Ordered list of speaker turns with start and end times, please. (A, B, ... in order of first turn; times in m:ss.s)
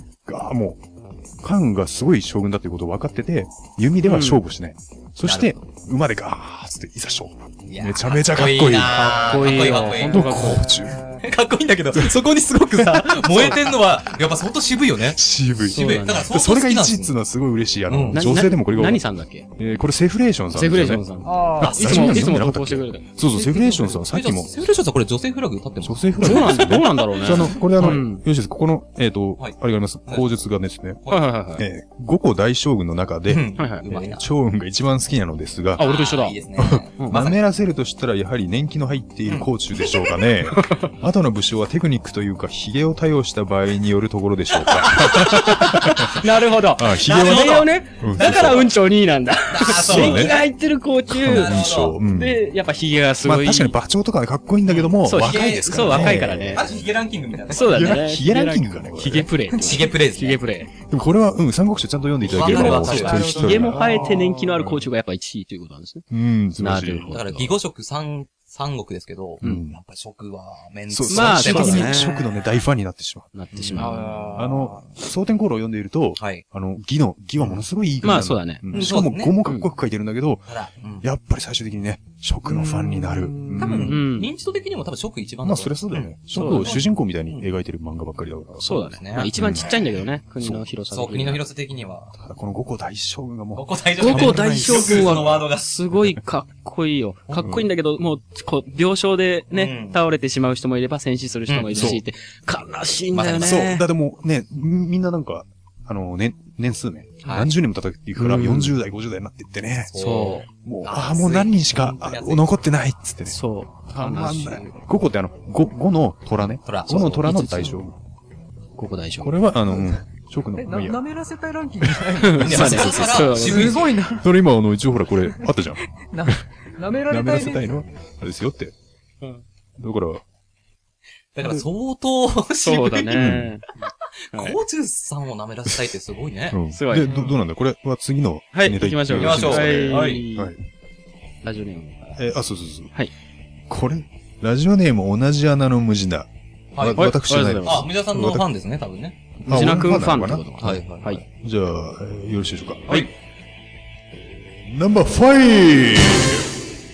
0:00.3-0:00.8 A
0:01.4-0:11.0 A
0:04.0-0:04.4 B
0:05.2-0:05.6 C
0:07.7-0:10.6 C
0:08.9-0:10.7 B
0:11.2-0:17.2 C
0:12.0-0:12.2 A
0:12.8-0:13.6 A
0:15.0-0:19.0 A
0:15.7-0:16.3 B
0:17.9-0:18.2 C
0:18.1-0:19.5 B
0:19.6-0:24.5 A
0:20.5-0:23.0 B
0:21.2-0:22.3 D
0:21.6-0:22.4 C
0:23.3-0:24.0 D
0:24.1-0:28.0 C
0:25.8-0:31.0 A
0:26.2-0:28.2 B
0:29.4-0:30.3 C
0:31.0-0:31.3 C
0:31.1-0:31.7 B
0:31.6-0:35.9 A
0:33.3-0:34.3 C
0:33.6-0:33.9 B
0:35.8-0:36.4 B
0:35.8-0:37.4 C
0:36.6-0:48.7 A
0:37.0-0:37.2 B
0:40.6-0:40.9 B
0:44.5-0:48.8 C
0:45.3-0:53.7 B
0:49.5-0:50.4 C
0:49.6-0:50.4 A
0:51.1-0:52.4 A
0:51.2-0:52.0 C
0:53.2-0:56.8 A
0:54.7-0:58.1 C
0:55.0-0:56.7 B
0:57.5-1:00.7 B
0:57.6-0:59.3 A
0:59.5-1:00.4 C
1:00.8-1:04.8 A
1:02.2-1:03.8 C
1:02.4-1:06.1 B
1:02.5-1:04.0 D
1:06.1-1:07.1 A
1:06.6-1:07.6 B
1:07.1-1:12.5 C
1:09.4-1:09.8 A
1:10.9-1:24.0 A
1:11.1-1:12.2 B
1:13.3-1:14.2 B
1:13.5-1:14.8 C
1:16.2-1:16.4 C
1:18.0-1:19.7 B
1:18.7-1:19.4 C
1:20.5-1:21.0 C
1:22.5-1:23.9 D
1:23.6-1:27.5 C
1:23.7-1:24.3 B
1:25.4-1:29.8 A
1:26.3-1:26.8 B
1:28.6-1:31.4 B
1:28.9-1:29.7 C
1:30.4-1:30.7 A
1:30.9-1:32.1 C
1:32.2-1:35.4 A
1:33.5-1:35.7 C
1:34.0-1:43.8 B
1:35.9-1:36.2 A
1:37.3-1:37.7 C
1:37.4-1:37.7 A
1:39.5-1:40.0 C
1:41.5-1:42.0 C
1:41.7-1:42.0 A
1:43.1-1:43.8 C
1:43.4-1:49.9 A
1:47.2-1:47.5 C
1:48.2-1:48.8 B
1:49.9-1:52.5 C
1:50.0-1:50.5 B
1:50.6-1:58.0 A
1:53.3-1:54.8 B
1:56.6-1:57.8 C
1:58.8-1:59.4 B
1:59.2-2:01.0 A
2:00.6-2:04.2 D
2:02.2-2:03.9 B
2:02.4-2:04.0 C
2:04.1-2:06.4 A
2:06.1-2:07.7 D
2:07.1-2:08.7 A
2:09.8-2:10.2 A
2:11.4-2:13.4 C
2:12.6-2:13.7 B
2:13.1-2:13.5 A
2:14.3-2:16.6 C
2:14.3-2:14.6 B
2:16.5-2:20.6 A
2:16.7-2:17.2 B
2:18.5-2:20.6 B
2:19.2-2:20.3 C
2:21.4-2:22.2 B
2:22.2-2:23.0 A
2:23.7-2:28.5 A
2:26.8-2:29.2 C
2:26.9-2:27.9 B
2:29.4-2:30.5 A
2:29.5-2:31.2 B
2:30.6-2:31.2 C
2:31.4-2:33.1 A
2:34.2-2:36.5 A